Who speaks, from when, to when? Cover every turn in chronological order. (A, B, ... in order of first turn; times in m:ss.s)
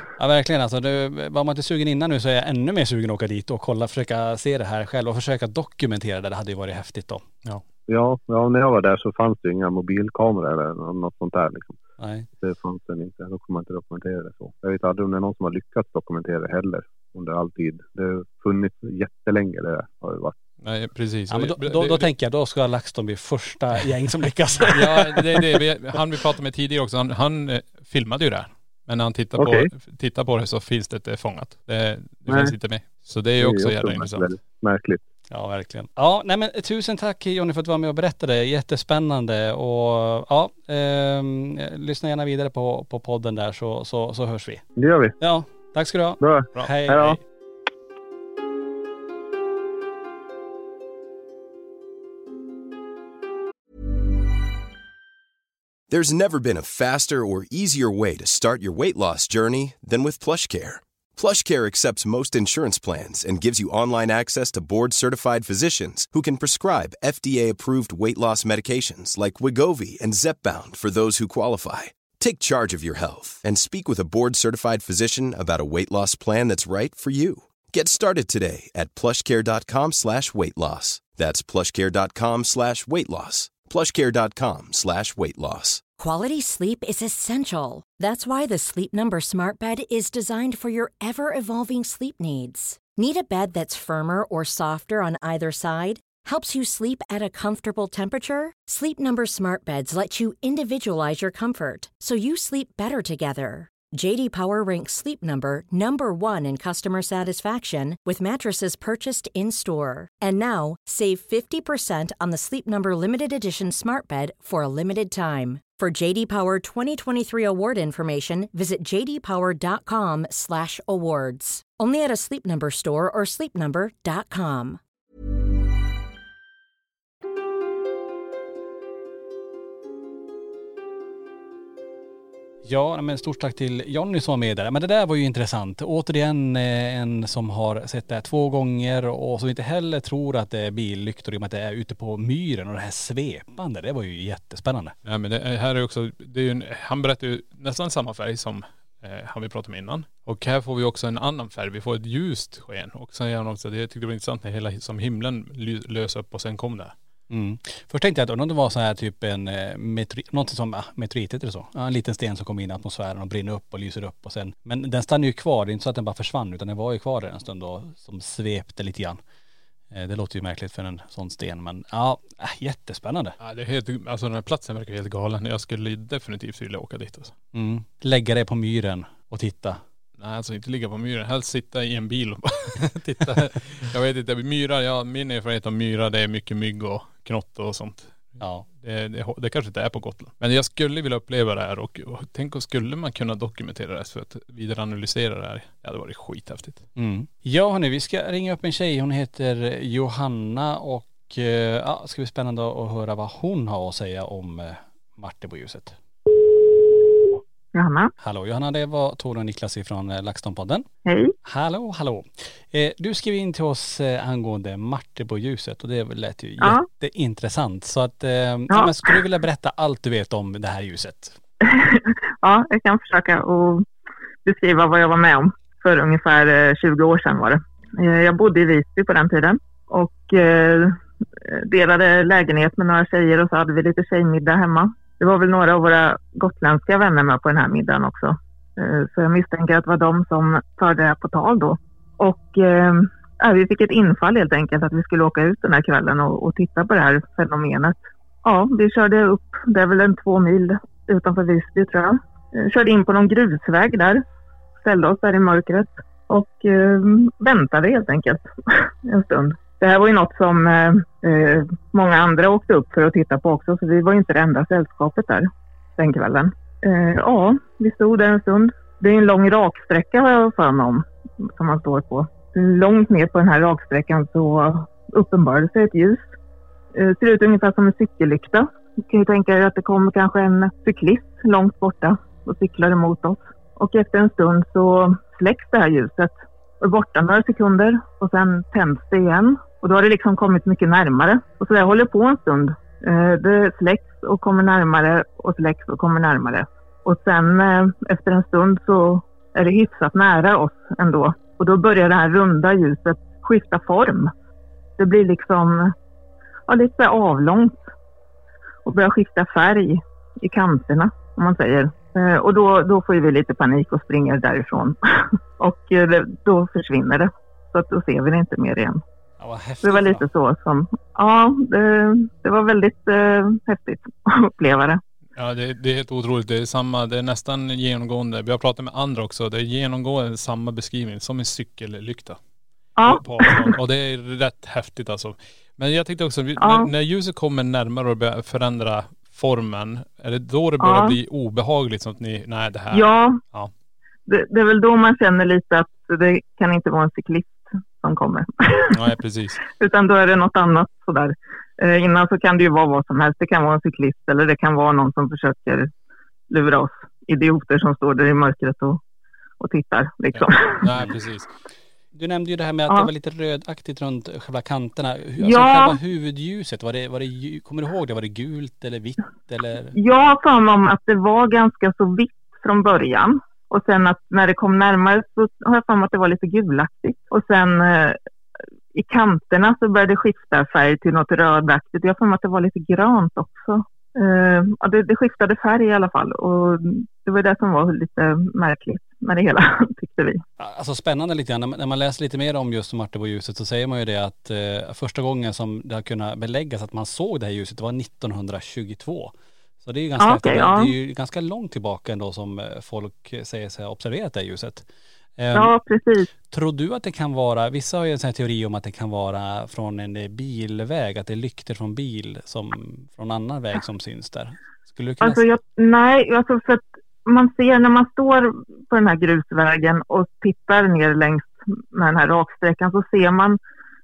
0:00.2-0:07.2 A
0:07.9-0:11.8 B
0:12.0-0:12.3 A
0:12.4-0:20.3 B
0:20.6-0:22.1 C
0:21.3-0:25.4 A
0:24.7-0:34.3 C
0:29.4-0:29.7 B
0:32.3-0:32.5 B
0:33.4-0:35.0 B
0:35.3-0:44.6 A
0:44.8-0:45.1 B
0:45.2-0:47.2 A
0:46.2-0:47.2 B
0:55.9-1:25.8 D
1:26.0-2:04.8 E
2:12.6-2:24.9 A
2:25.0-2:36.9 C
2:37.3-2:49.2 A
2:49.9-2:53.4 A
2:53.4-2:57.3 C
2:57.5-2:59.8 A
3:00.2-3:16.8 C
3:03.0-3:03.5 A
3:08.4-3:08.6 A
3:17.0-3:26.0 A
3:27.7-3:28.1 F
3:28.2-3:30.8 A
3:31.0-3:31.3 F
3:31.4-3:41.4 A
3:36.6-3:36.8 F
3:38.7-3:39.2 F
3:41.6-3:43.8 F
3:44.4-4:14.2 F
4:14.8-4:36.2 F
4:36.9-5:04.3 F
5:05.0-5:05.9 F
5:06.7-5:07.8 F
5:08.8-5:19.0 F
5:19.4-5:20.2 A
5:19.8-5:25.0 F
5:25.4-5:32.4 C
5:33.0-5:33.7 F
5:33.0-5:43.7 C
5:36.6-5:36.9 F
5:40.8-5:41.2 F
5:42.9-5:43.4 F
5:44.3-5:49.1 F
5:48.9-5:49.6 C
5:49.7-5:55.9 F
5:56.5-5:59.0 F
5:59.6-6:01.0 F
6:00.3-6:01.5 C
6:02.1-6:09.9 A
6:05.4-6:06.0 F
6:09.9-6:18.2 F
6:18.9-6:30.4 F
6:30.6-6:44.8 A
6:40.2-6:40.9 F
6:45.4-6:45.7 A
6:45.5-6:46.3 F
6:46.5-6:55.4 A
6:55.2-7:03.6 F